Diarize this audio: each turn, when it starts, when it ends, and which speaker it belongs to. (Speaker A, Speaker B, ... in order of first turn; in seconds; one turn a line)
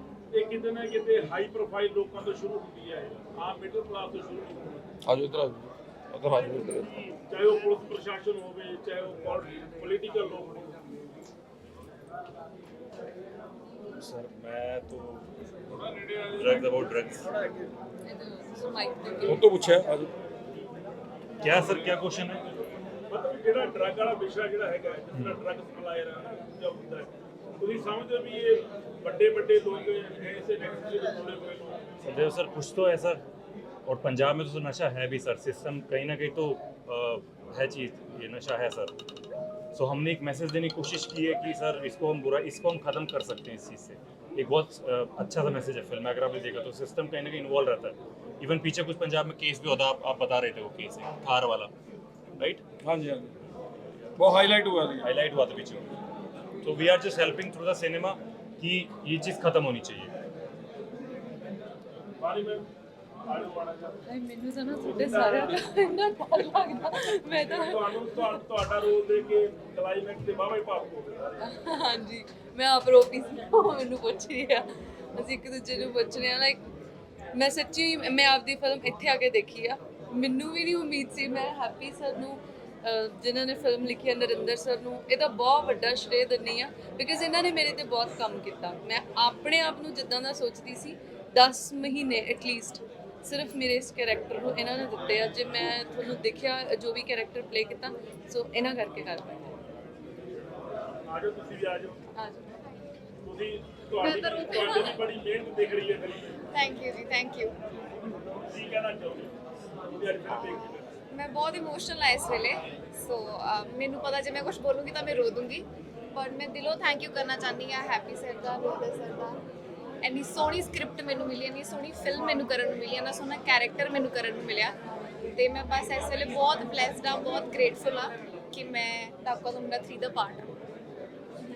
Speaker A: 0.3-4.8
Speaker B: 5.0-6.9
Speaker A: 6.3-10.7
Speaker C: 14.0-15.2
Speaker B: 15.8-16.7
Speaker C: 16.3-17.2
Speaker D: 18.1-19.5
Speaker B: 19.2-20.1
Speaker C: 21.4-22.4
Speaker A: 23.1-27.1
Speaker C: 25.1-25.4
Speaker A: 27.6-31.8
Speaker C: 32.0-33.2
Speaker C: 33.9-38.9
Speaker C: 39.7-51.7
Speaker B: 52.8-53.3
Speaker B: 54.2-55.1
Speaker C: 55.0-55.9
Speaker C: 56.6-60.1
Speaker A: 62.2-62.6
Speaker A: 63.3-64.0
Speaker D: 64.1-68.5
Speaker A: 64.8-65.5
Speaker A: 67.4-71.2
Speaker D: 71.4-74.6
Speaker D: 75.2-76.6
Speaker D: 77.3-99.5
Speaker A: 101.1-102.0
Speaker D: 102.1-102.5
Speaker A: 103.2-106.3
Speaker E: 104.0-104.7
Speaker D: 104.4-105.0
Speaker E: 106.5-107.5
Speaker A: 108.5-109.3
Speaker A: 110.0-110.8
Speaker E: 110.2-119.4
Speaker E: 120.0-124.7
Speaker E: 125.3-130.5